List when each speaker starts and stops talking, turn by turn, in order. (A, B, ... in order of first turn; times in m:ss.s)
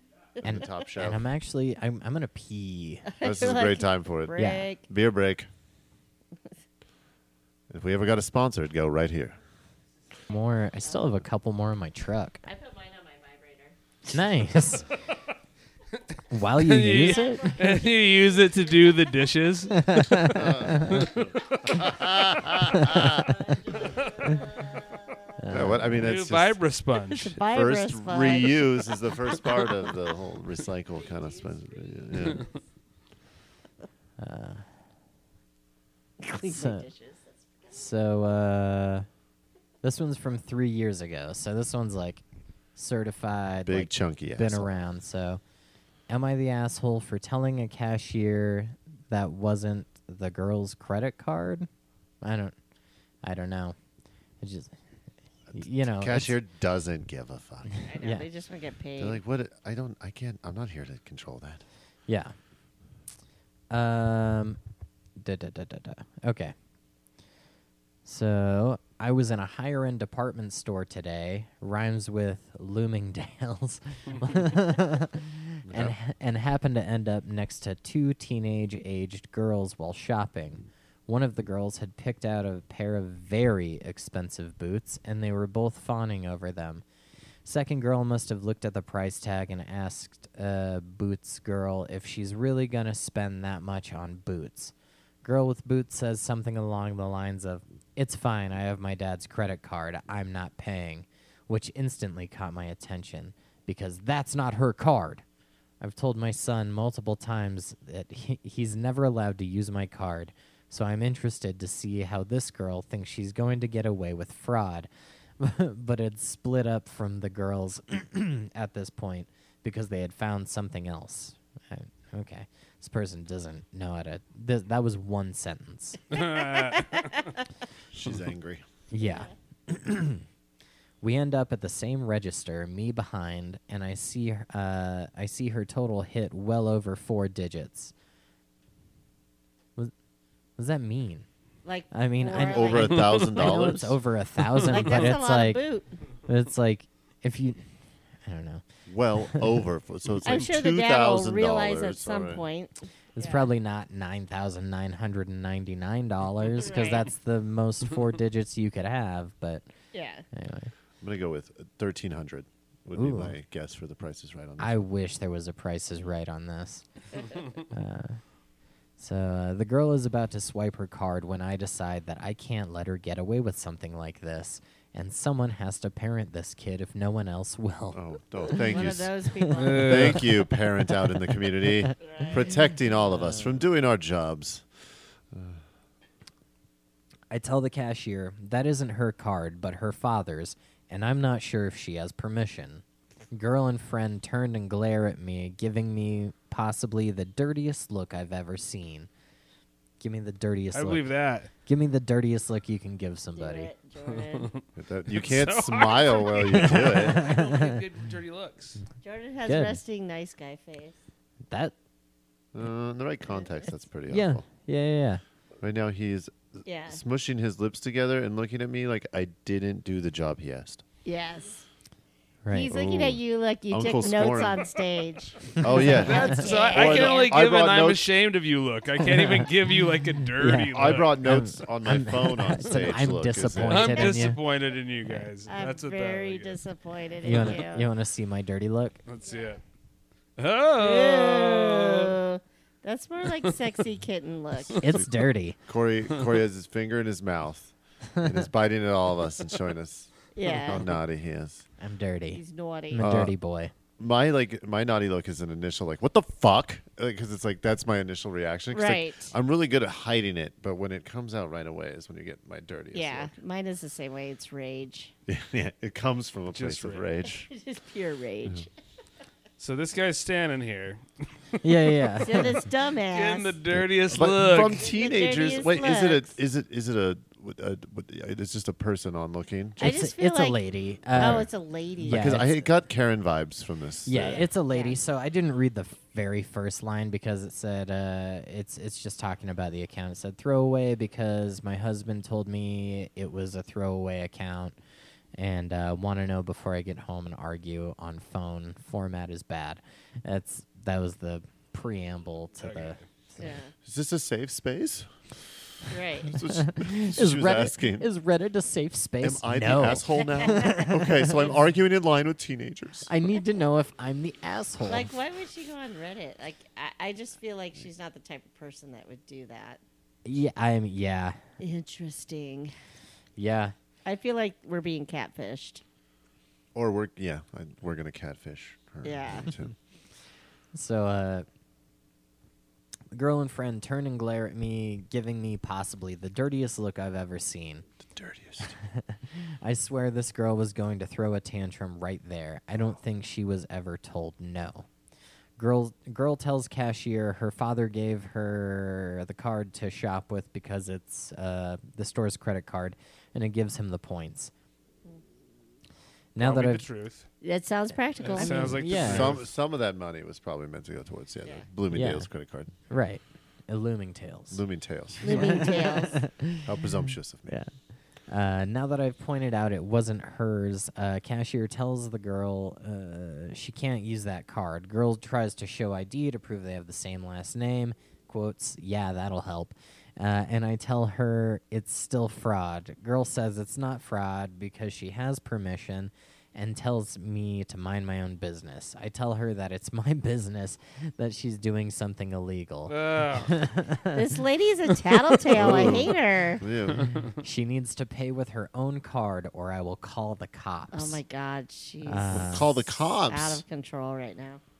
0:00.4-0:01.2 A
0:00.9-0:03.1 B
0:03.1-0:04.8 C
0:03.2-0:05.5 A
0:04.4-0:04.7 B
0:07.7-0:09.4 A
0:10.3-0:12.4 B
0:12.4-0:13.8 C
0:14.0-0:14.9 B
0:16.3-0:17.6 B
0:16.5-0:24.8 D
0:16.9-0:19.0 C
0:19.7-0:21.1 B
0:20.3-0:23.3 A
0:23.1-0:25.1 C
0:25.4-0:26.1 B
0:25.5-0:26.6 A
0:26.0-0:27.3 D
0:27.1-0:29.7 C
0:27.4-0:32.4 A
0:31.0-0:32.6 C
0:34.2-0:34.7 B
0:36.2-0:37.9 C
0:36.3-0:36.9 B
0:37.7-0:39.1 B
0:39.8-0:42.2 B
0:42.8-0:45.4 B
0:43.6-0:44.7 A
0:46.1-0:51.7 B
0:52.2-0:52.6 B
0:53.2-0:53.8 B
0:54.4-0:54.7 B
0:55.5-0:57.8 A
0:55.5-0:56.4 B
0:57.8-0:59.2 C
0:58.0-0:58.3 B
0:59.0-1:01.6 A
1:02.1-1:02.3 B
1:03.7-1:04.6 B
1:05.2-1:06.5 B
1:08.0-1:26.8 B
1:15.6-1:15.9 A
1:27.4-1:45.2 B
1:45.8-2:06.0 B
2:06.1-2:07.3 D
2:06.1-2:07.2 C
2:07.9-2:08.6 A
2:08.9-2:10.2 B
2:09.0-2:09.3 C
2:11.0-2:17.9 B
2:20.6-2:21.2 B
2:21.6-2:23.1 C
2:21.9-2:25.6 B
2:22.4-2:24.0 A
2:24.7-2:25.9 C
2:26.2-2:27.7 B
2:28.2-2:28.6 B
2:28.9-2:32.4 A
2:29.2-2:29.5 B
2:30.2-2:33.5 C
2:33.1-2:39.6 B
2:36.5-2:37.1 C
2:39.9-2:40.2 C
2:40.3-2:40.7 B
2:41.0-2:44.8 A
2:42.9-2:43.3 B
2:44.6-2:46.8 B
2:47.1-2:47.4 C
2:47.7-2:48.2 B
2:49.0-2:58.7 B
2:57.9-2:59.1 A
2:58.6-3:00.2 C
2:59.5-3:00.3 D
2:59.6-3:04.7 A
3:02.1-3:02.4 C
3:03.3-3:03.5 B
3:05.3-3:05.6 A
3:07.3-3:19.1 B
3:20.0-3:21.1 B
3:20.7-3:21.5 D
3:21.6-3:23.7 B
3:23.3-3:24.6 C
3:24.1-3:28.8 D
3:24.7-3:27.3 A
3:26.8-3:27.8 B
3:29.0-3:31.0 C
3:29.4-3:29.8 B
3:31.5-3:31.7 B
3:32.5-3:34.4 A
3:34.1-3:35.2 B
3:35.6-3:40.8 A
3:36.6-3:37.0 C
3:41.0-3:41.6 C
3:42.4-3:42.7 B
3:42.5-3:47.4 C
3:42.7-3:44.6 A
3:45.6-3:48.1 A
3:45.7-3:46.4 B
3:45.9-3:51.2 D
3:49.0-3:49.5 B
3:50.3-3:54.4 B
3:50.7-3:54.1 A
3:53.7-3:56.6 D
3:55.5-3:57.8 C
3:57.2-3:59.0 B
3:59.0-3:59.6 D
4:00.4-4:02.2 D
4:00.8-4:04.9 C
4:04.6-4:04.8 D
4:04.8-4:05.6 B
4:05.7-4:11.6 A
4:08.1-4:08.4 B
4:10.3-4:10.8 C
4:11.8-4:13.7 B
4:12.3-4:13.1 C
4:13.0-4:13.3 A
4:14.0-4:23.3 A
4:18.7-4:19.3 C
4:22.9-4:25.1 C
4:25.3-4:27.5 A
4:26.5-4:27.1 D
4:27.4-4:28.7 C
4:29.6-4:31.9 D
4:31.6-4:32.6 B
4:32.2-4:33.6 C
4:33.1-4:34.9 D
4:34.1-4:39.9 A
4:34.6-4:36.3 C
4:39.8-4:40.6 C
4:39.8-4:42.6 B
4:41.1-4:41.5 A
4:41.1-4:42.5 C
4:42.1-4:44.5 A
4:44.0-4:54.8 B
4:44.2-4:45.0 C
4:55.3-5:03.4 B
5:02.6-5:03.0 D
5:03.4-5:03.7 C
5:03.8-5:05.1 A
5:05.9-5:06.3 C
5:06.3-5:08.1 A
5:06.4-5:11.4 B
5:09.2-5:13.1 A
5:10.2-5:10.9 C
5:13.1-5:15.1 B
5:14.8-5:19.8 C
5:20.2-5:21.4 B
5:21.6-5:22.7 C
5:23.4-5:23.7 B
5:24.0-5:25.8 C
5:26.7-5:29.7 A
5:29.0-5:29.5 C
5:30.7-5:31.4 B
5:33.1-5:37.8 B
5:38.1-5:38.8 A
5:38.6-5:44.9 B
5:45.6-5:54.5 B
5:56.3-5:56.8 B
5:56.4-5:57.3 D
5:57.4-5:58.8 C
5:58.2-5:59.4 D
5:58.4-5:59.4 B
5:58.9-6:02.7 A
6:01.9-6:02.3 B
6:02.9-6:04.6 B
6:04.5-6:05.5 A
6:05.2-6:06.3 C
6:05.2-6:06.7 B
6:06.6-6:07.6 A
6:07.5-6:07.7 B
6:08.3-6:36.0 B
6:32.9-6:33.6 D
6:34.1-6:36.6 C
6:35.5-6:37.2 A
6:36.9-6:37.3 D
6:37.4-6:41.2 B
6:40.9-6:44.6 C
6:42.0-6:42.7 B
6:42.3-6:43.6 A